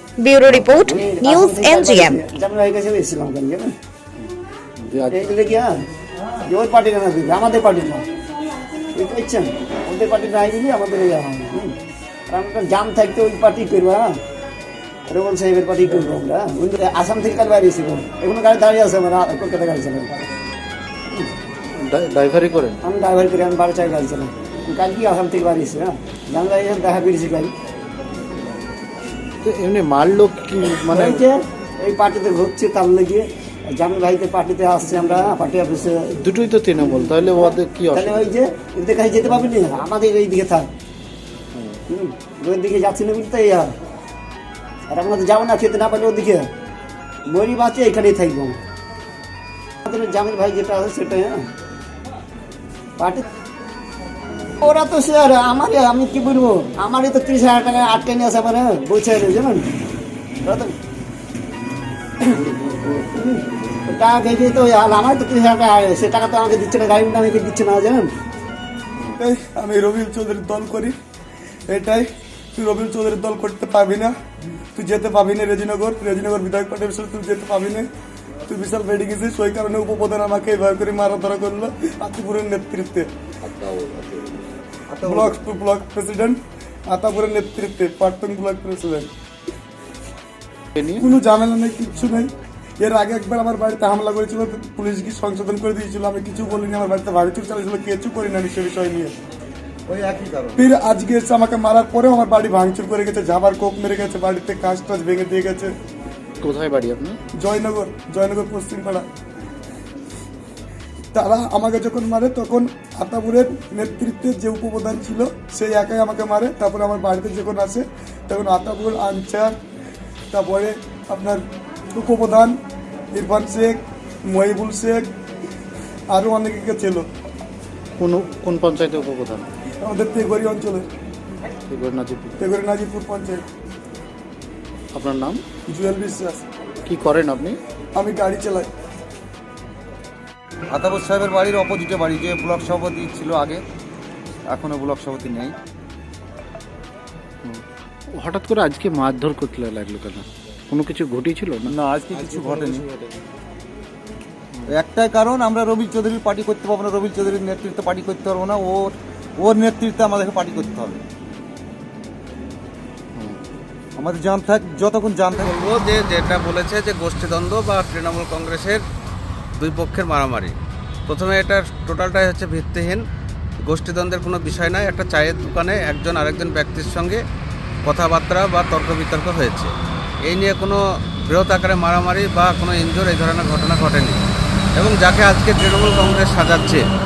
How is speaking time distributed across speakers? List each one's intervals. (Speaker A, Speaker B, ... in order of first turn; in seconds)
Speaker A: 0.2-2.2
Speaker B: 0.6-3.7, 5.1-5.7, 6.4-8.1, 8.9-11.7, 12.3-14.1, 15.1-20.2, 22.8-27.5, 30.9-36.1, 36.8-40.7, 41.9-43.7, 44.9-46.5, 47.3-48.6, 49.8-51.5, 53.0-53.2, 54.6-59.6, 60.4-60.8, 62.2-68.1
Speaker C: 4.8-5.2, 21.8-22.8, 29.4-31.2, 36.2-38.3, 90.8-91.0, 106.4-107.2, 128.0-129.5, 131.7-132.4, 134.9-135.4, 136.8-137.6, 148.1-153.1
Speaker D: 69.2-70.9, 71.7-74.1, 74.7-77.9, 78.5-83.1, 85.0-89.1, 90.9-99.1, 100.5-105.7, 107.4-109.0, 111.1-119.6, 120.3-122.6, 123.1-125.1, 126.1-127.1, 129.8-130.9, 132.4-133.4, 135.7-136.4, 137.9-138.7
Speaker E: 83.4-85.4, 99.9-100.6, 140.7-143.6, 144.5-145.5, 151.7-152.9, 154.7-161.0, 164.0-165.5
Speaker F: 165.3-168.8, 169.6-170.5, 171.1-173.0, 173.7-177.2, 177.8-179.7, 180.2-184.2, 184.8-186.8